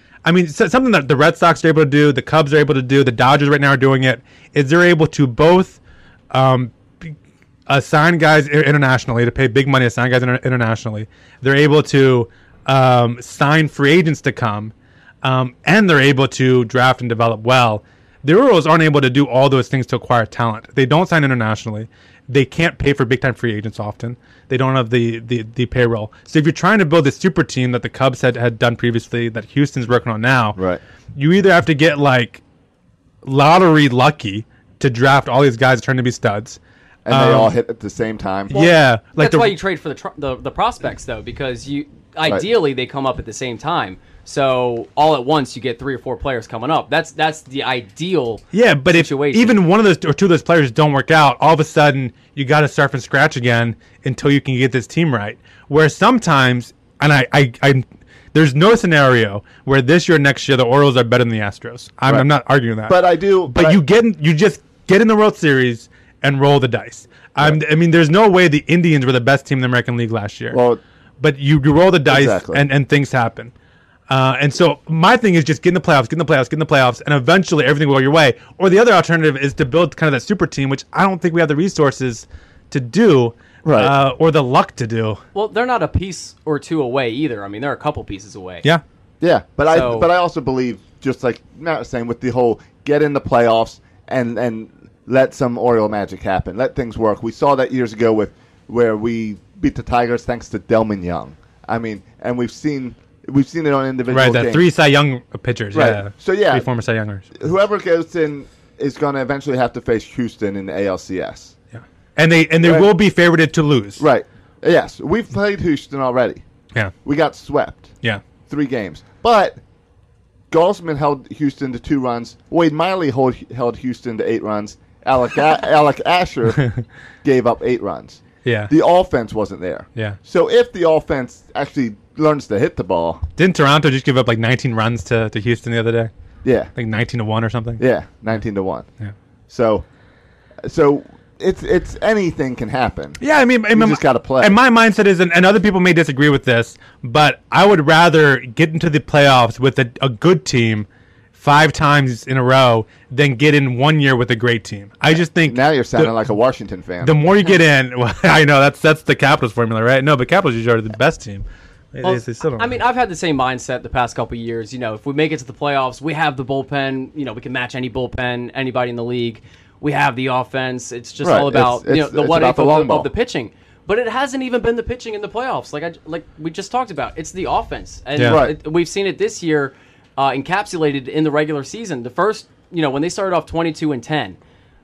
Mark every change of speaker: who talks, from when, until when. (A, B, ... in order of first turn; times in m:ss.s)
0:00.2-0:05.8 A
0:06.3-0:07.1 A
0:07.7-0:30.6 A
0:30.6-0:30.8 B
0:31.2-0:32.4 A
0:33.2-0:37.5 A
0:37.0-0:38.7 B
0:38.5-0:39.6 A
0:38.6-0:49.6 C
0:48.5-1:10.6 A
1:02.9-1:03.8 B
1:10.5-1:10.8 B
1:11.2-1:13.5 A
1:12.1-1:12.6 B
1:14.1-1:25.2 A
1:23.6-1:23.9 B
1:25.3-1:28.7 C
1:29.2-1:44.7 B
1:29.7-1:30.1 C
1:44.1-1:47.3 A
1:45.7-1:46.7 B
1:47.4-1:51.6 B
1:51.8-1:54.0 A
1:52.6-1:52.9 B
1:54.0-1:56.4 B
1:57.0-1:57.9 B
1:58.5-1:59.6 B
2:00.5-2:06.7 B
2:07.2-2:13.2 B
2:08.4-2:08.7 A
2:13.4-2:16.1 A
2:16.4-2:16.7 B
2:16.8-2:17.8 A
2:17.8-2:18.9 B
2:19.5-2:19.8 B
2:20.6-2:23.2 B
2:23.2-2:36.1 A
2:23.7-2:24.6 B
2:35.1-2:37.2 B
2:37.0-2:42.8 A
2:42.0-3:04.4 C
2:51.2-2:53.1 B
2:58.2-2:58.4 A
2:58.3-2:58.6 B